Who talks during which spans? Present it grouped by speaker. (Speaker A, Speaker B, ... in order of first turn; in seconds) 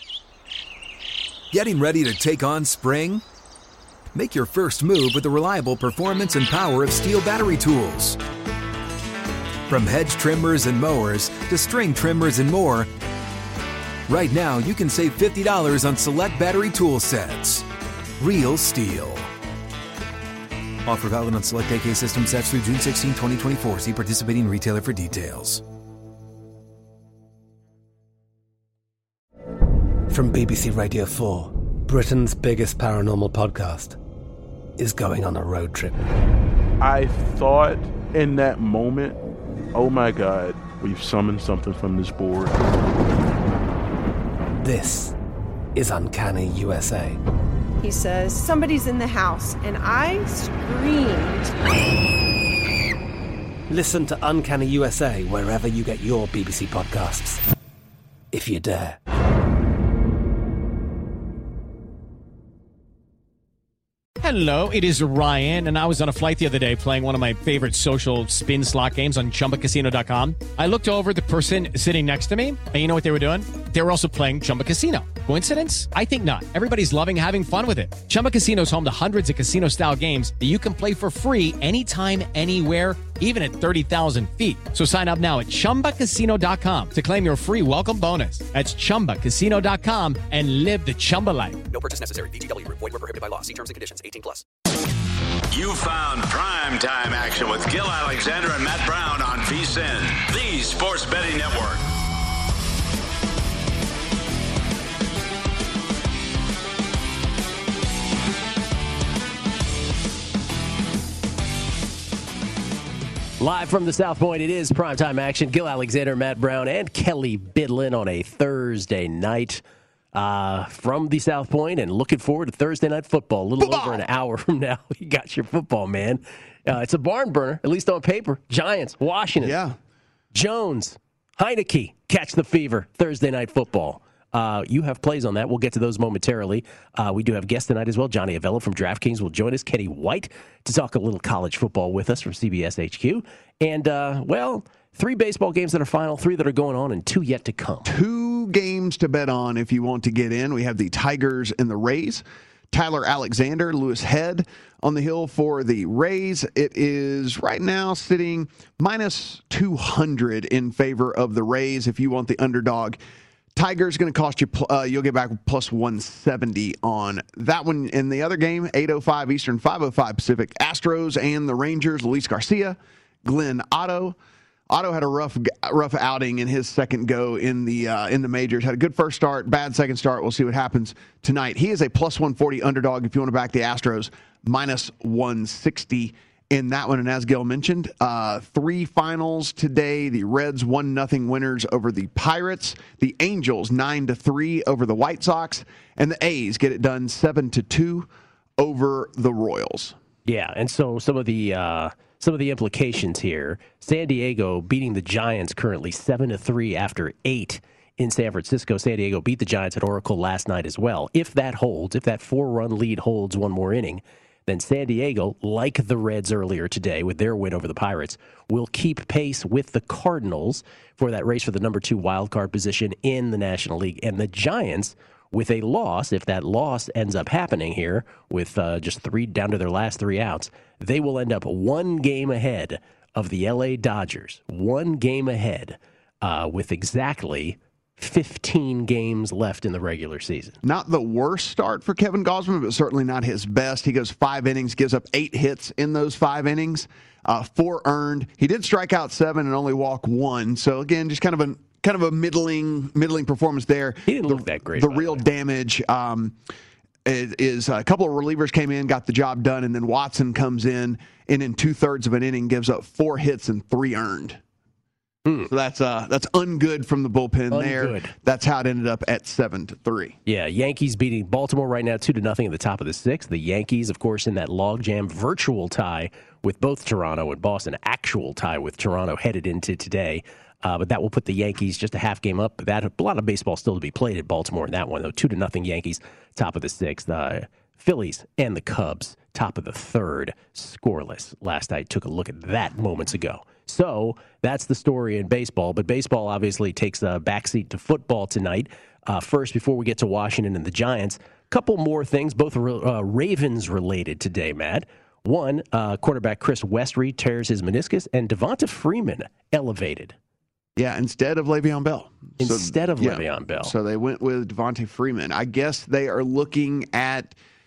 Speaker A: 1.5-3.2, 4.1-8.2, 9.7-12.9, 14.1-17.7, 18.2-19.3, 20.8-25.6
Speaker B: 30.1-34.0, 34.8-36.0, 44.6-45.1, 45.7-47.2, 53.7-57.4, 58.3-59.0
Speaker C: 36.8-39.2, 39.7-42.6
Speaker D: 47.8-51.5
Speaker E: 64.2-91.6
Speaker F: 91.7-94.4
Speaker G: 95.5-101.8
Speaker H: 113.4-119.6, 120.1-129.6, 130.3-147.9, 200.2-240.6, 254.1-255.2, 265.2-265.5, 267.5-268.1, 270.2-310.1, 312.4-313.7
Speaker I: 123.6-124.0, 129.4-129.8, 147.8-163.0, 163.5-174.2, 174.7-199.9, 240.6-256.4, 257.0-264.4, 265.5-270.2, 310.8-317.3